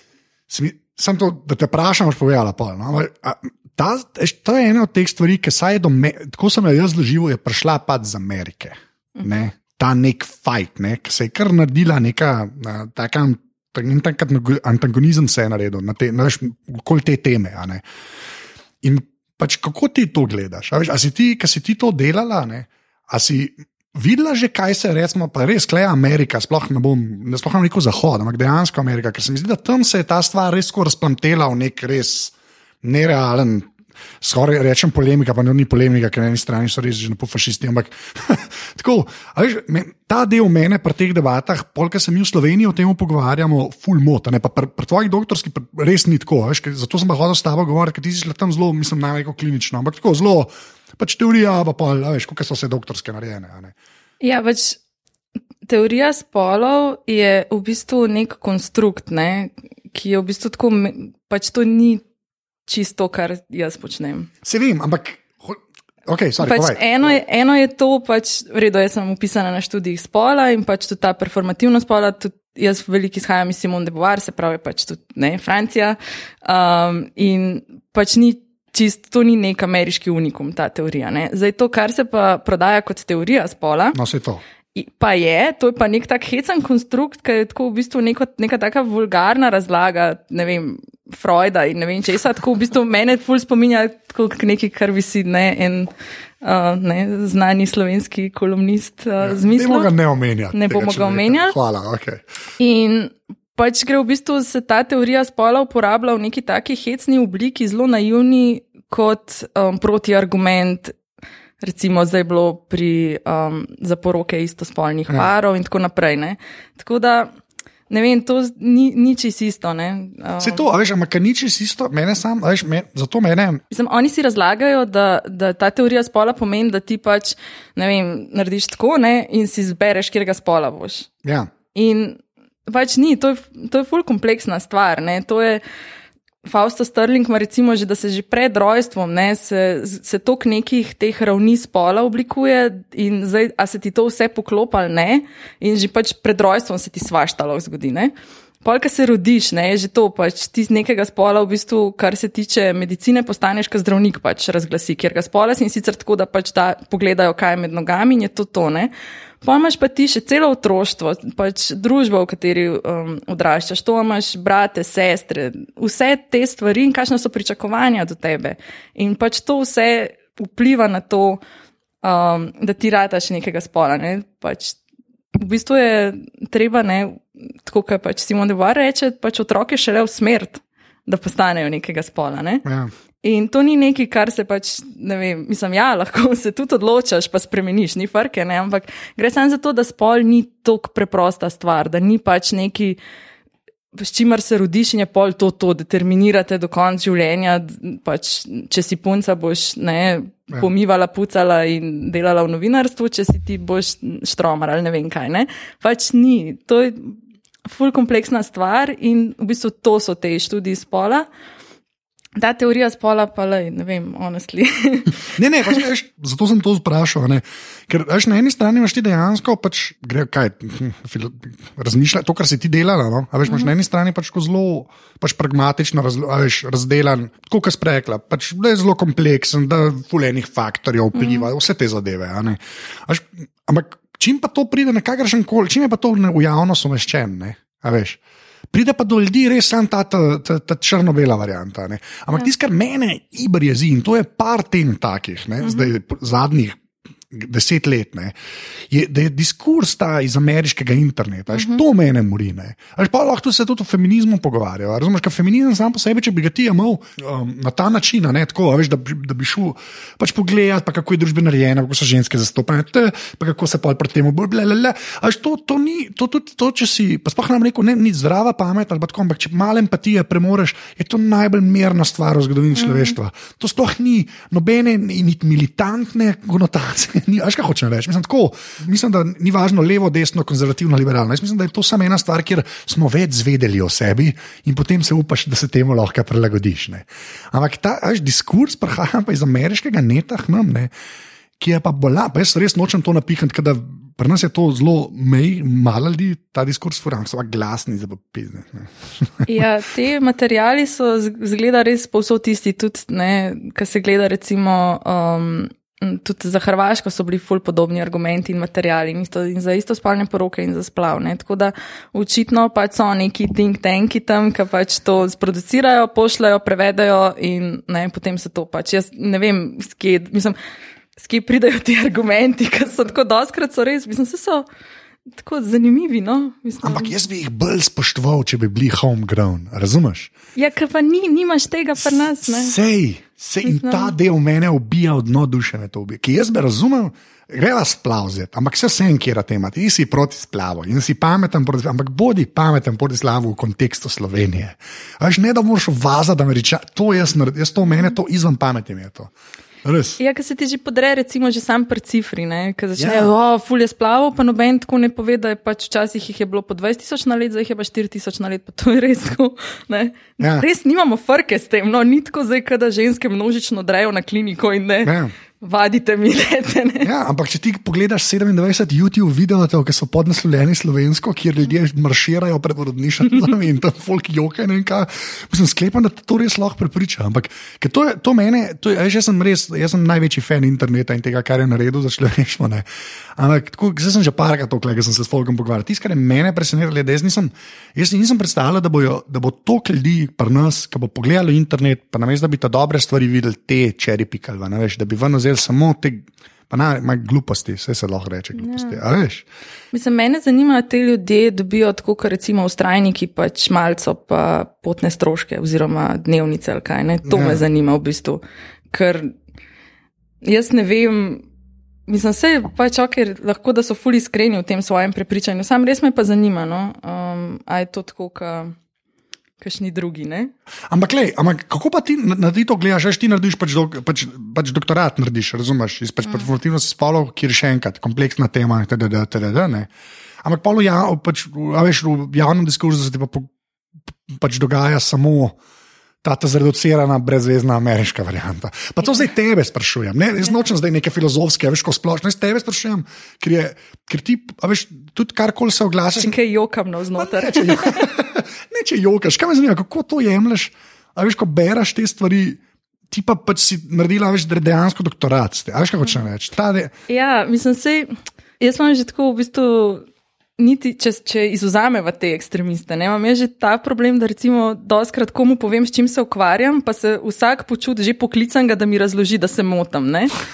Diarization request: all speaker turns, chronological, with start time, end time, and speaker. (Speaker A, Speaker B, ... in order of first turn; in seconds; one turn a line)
Speaker A: 0.5-17.8
Speaker A: 18.8-33.7
Speaker A: 34.2-53.7
Speaker B: 54.2-54.8
Speaker B: 55.7-62.0
Speaker B: 62.7-64.3
Speaker A: 64.4-67.2
Speaker B: 66.4-84.0
Speaker A: 83.9-84.4
Speaker B: 84.7-95.9
Speaker B: 96.4-99.9
Speaker A: 99.2-102.2
Speaker B: 100.5-101.5
Speaker B: 102.6-111.0
Speaker B: 111.6-117.3
Speaker B: 117.9-120.6
Speaker A: 120.4-123.6
Speaker B: 123.7-131.1
Speaker A: 131.2-131.5
Speaker B: 131.7-135.6
Speaker B: 136.4-171.4
Speaker B: 172.0-174.8
Speaker B: 175.3-182.6
Speaker A: 182.6-182.9
Speaker B: 183.2-193.0
Speaker B: 193.9-211.3
Speaker B: 212.3-215.8
Speaker A: 215.3-238.2
Speaker B: 231.1-231.4
Speaker A: 238.7-246.8
Speaker B: 245.6-245.9
Speaker A: 247.3-248.3
Speaker A: 248.9-290.9
Speaker B: 251.5-251.8
Speaker B: 272.8-273.1
Speaker A: 291.6-299.5
Speaker B: 299.4-320.6
Speaker B: 321.2-324.6
Speaker B: 325.3-327.1
Speaker A: 326.8-330.3
Speaker B: 330.5-332.7
Speaker A: 332.4-349.3
Speaker B: 333.6-334.1
Speaker A: 349.8-350.2
Speaker B: 350.2-367.1
Speaker A: 353.0-353.3
Speaker A: 360.4-360.6
Speaker A: 365.0-365.3
Speaker A: 367.0-382.9
Speaker A: 383.4-399.4
Speaker B: 398.6-399.0
Speaker B: 399.9-409.3
Speaker A: 407.2-407.6
Speaker B: 410.4-411.4
Speaker B: 412.1-418.7
Speaker B: 419.6-420.5
Speaker A: 420.9-429.9
Speaker A: 430.4-433.5
Speaker A: 434.3-435.6
Speaker A: 436.2-446.4
Speaker B: 446.2-448.1
Speaker A: 447.1-452.6
Speaker A: 453.1-456.9
Speaker B: 457.1-460.0
Speaker B: 460.6-470.3